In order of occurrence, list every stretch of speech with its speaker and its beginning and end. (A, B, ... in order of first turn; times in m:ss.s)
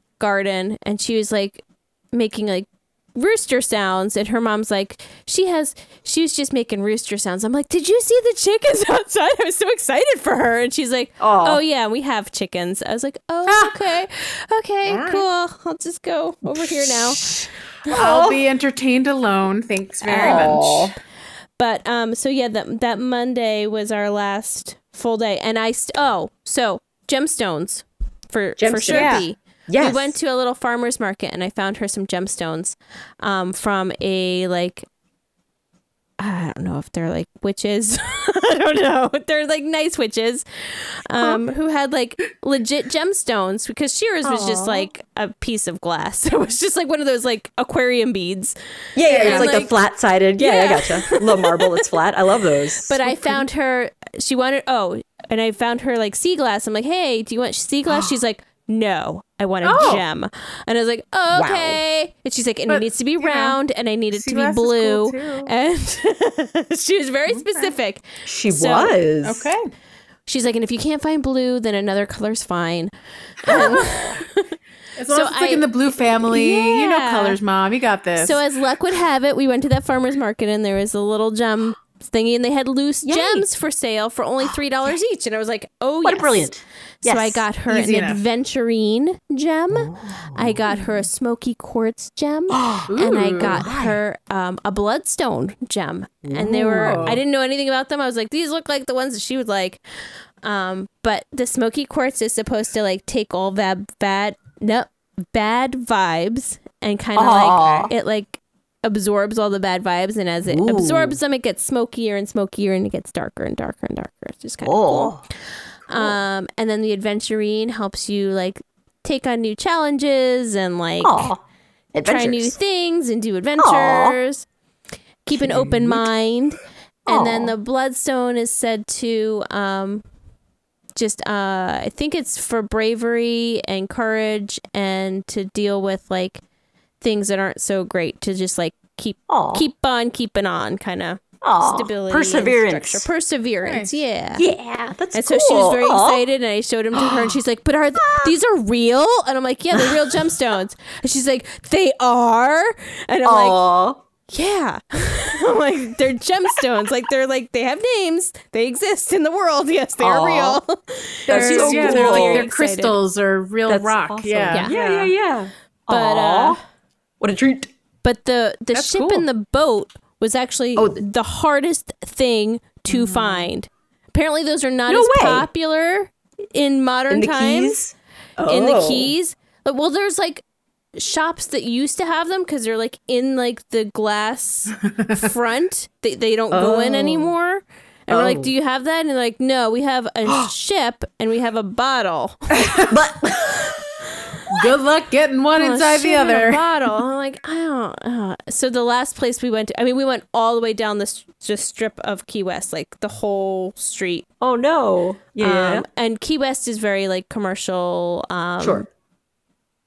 0:00.2-0:17.2 A
0:11.2-0:11.6 B
0:13.5-0:13.8 C
0:14.9-0:15.2 C
0:16.4-0:18.4 B
0:17.9-0:20.9 C
0:20.0-0:20.7 A
0:20.1-0:20.9 B
0:21.6-0:34.8 A
0:28.6-0:30.2 B
0:28.9-0:29.2 C
0:36.2-0:40.4 A
0:41.0-0:48.5 A
0:44.2-0:44.9 B
0:48.9-0:53.0 B
0:49.1-0:49.7 A
0:49.1-0:49.7 C
0:50.4-0:51.8 A
0:52.8-1:08.9 A
0:59.6-1:00.0 C
1:01.3-1:01.8 B
1:02.7-1:03.6 C
1:04.1-1:05.5 C
1:07.3-1:07.7 C
1:08.2-1:09.5 B
1:09.2-1:09.6 C
1:10.3-1:12.9 A
1:13.4-1:14.6 A
1:13.5-1:14.0 C
1:13.5-1:14.2 B
1:15.0-1:18.4 C
1:15.1-1:17.4 A
1:18.2-1:26.5 A
1:23.0-1:23.5 B
1:26.0-1:27.4 B
1:27.0-1:39.8 A
1:27.7-1:28.2 C
1:29.7-1:30.6 B
1:32.5-1:34.0 B
1:32.9-1:33.6 C
1:36.2-1:37.2 B
1:36.8-1:37.2 C
1:40.4-1:55.1 A
1:47.2-1:47.9 B
1:50.5-1:51.2 B
1:54.6-1:55.2 B
1:55.9-2:01.3 A
1:55.9-1:56.2 B
2:01.0-2:01.4 B
2:01.9-2:02.6 B
2:02.0-2:04.5 A
2:03.6-2:04.2 B
2:05.2-2:10.0 A
2:05.4-2:06.1 B
2:07.1-2:07.5 B
2:11.0-2:16.4 A
2:17.0-2:24.4 A
2:19.3-2:19.7 B
2:21.4-2:23.1 B
2:23.6-2:23.9 C
2:24.3-2:26.2 B
2:25.1-2:33.6 A
2:26.9-2:27.4 B
2:27.9-2:28.4 B
2:29.7-2:30.4 B
2:33.2-2:34.0 B
2:34.3-2:42.9 A
2:40.0-2:40.6 B
2:41.3-2:42.5 B
2:41.3-2:45.1 C
2:43.7-2:46.6 B
2:45.9-2:46.6 A
2:47.2-2:47.7 B
2:48.0-2:57.8 A
2:48.7-2:49.2 C
2:50.8-2:51.0 B
2:54.9-2:55.5 B
2:57.1-2:59.1 B
2:58.4-3:00.4 A
3:00.9-3:12.5 A
3:04.9-3:05.2 C
3:06.5-3:07.3 B
3:08.1-3:08.5 B
3:12.6-3:13.0 C
3:12.8-3:14.1 B
3:14.5-3:16.6 C
3:15.5-3:24.2 A
3:24.4-3:25.8 B
3:25.4-3:28.9 A
3:28.6-3:28.9 B